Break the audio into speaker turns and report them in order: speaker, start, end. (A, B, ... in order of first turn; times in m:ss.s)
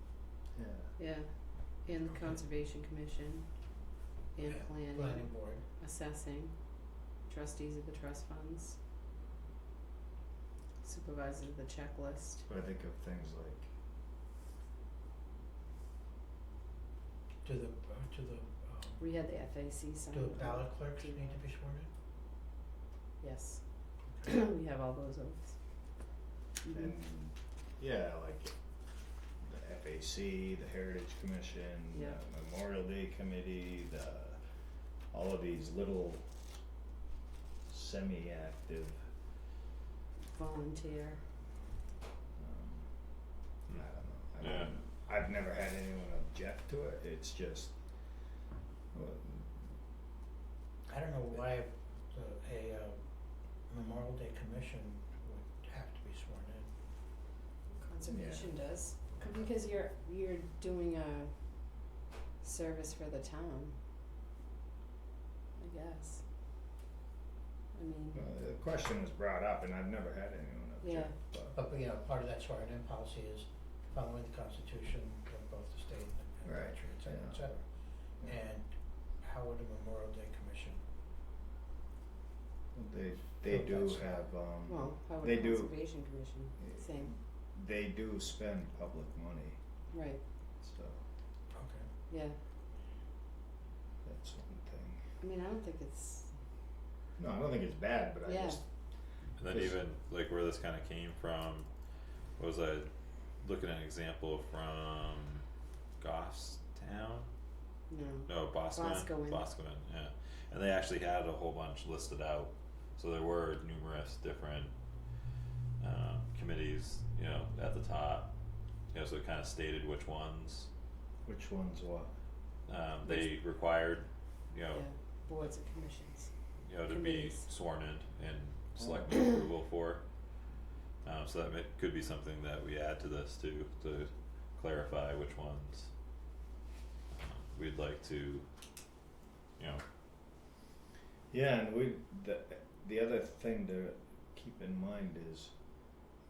0:00.5-0:00.9 A
0:01.0-0:03.5 B
0:02.0-0:02.4 C
0:04.3-0:08.8 B
0:04.4-0:05.6 C
0:10.8-0:12.4 B
0:12.5-0:13.7 A
0:17.4-0:19.0 C
0:19.0-0:21.4 B
0:20.1-0:21.9 C
0:23.2-0:23.6 B
0:24.2-0:25.6 B
0:26.6-0:26.9 B
0:26.7-0:28.6 A
0:29.4-0:34.4 A
0:35.1-0:36.2 A
0:37.7-0:39.0 A
0:40.3-0:41.2 B
0:42.4-0:42.9 A
0:43.7-0:47.7 A
0:44.4-0:44.7 D
0:48.9-0:49.5 A
0:50.9-0:53.0 C
0:53.7-0:56.7 C
0:57.7-1:01.3 B
0:58.0-0:59.5 A
1:02.4-1:03.7 B
1:05.6-1:06.2 B
1:07.7-1:08.2 B
1:08.1-1:11.6 A
1:10.8-1:11.1 B
1:11.5-1:17.7 C
1:16.4-1:17.5 A
1:18.2-1:20.8 C
1:22.7-1:29.6 A
1:23.4-1:24.2 C
1:24.7-1:27.1 B
1:29.9-1:30.2 B
1:30.6-1:31.0 A
1:31.5-1:31.9 C
1:32.1-1:32.4 B
1:34.0-1:35.0 A
1:35.2-1:36.3 B
1:37.2-1:38.6 A
1:38.2-1:38.6 B
1:39.4-1:41.7 D
1:39.4-1:39.8 A
1:42.4-1:42.9 D
1:43.4-1:45.4 D
1:46.0-1:47.3 D
1:47.9-1:49.4 B
1:48.3-1:54.7 D
1:55.8-1:58.3 D
1:58.9-2:00.7 D
2:01.2-2:02.1 A
2:02.7-2:04.8 D
2:04.7-2:06.3 B
2:06.6-2:10.0 D
2:06.9-2:07.5 B
2:08.8-2:09.1 A
2:11.0-2:15.9 D
2:17.1-2:18.4 D
2:19.6-2:19.8 D
2:21.3-2:25.5 A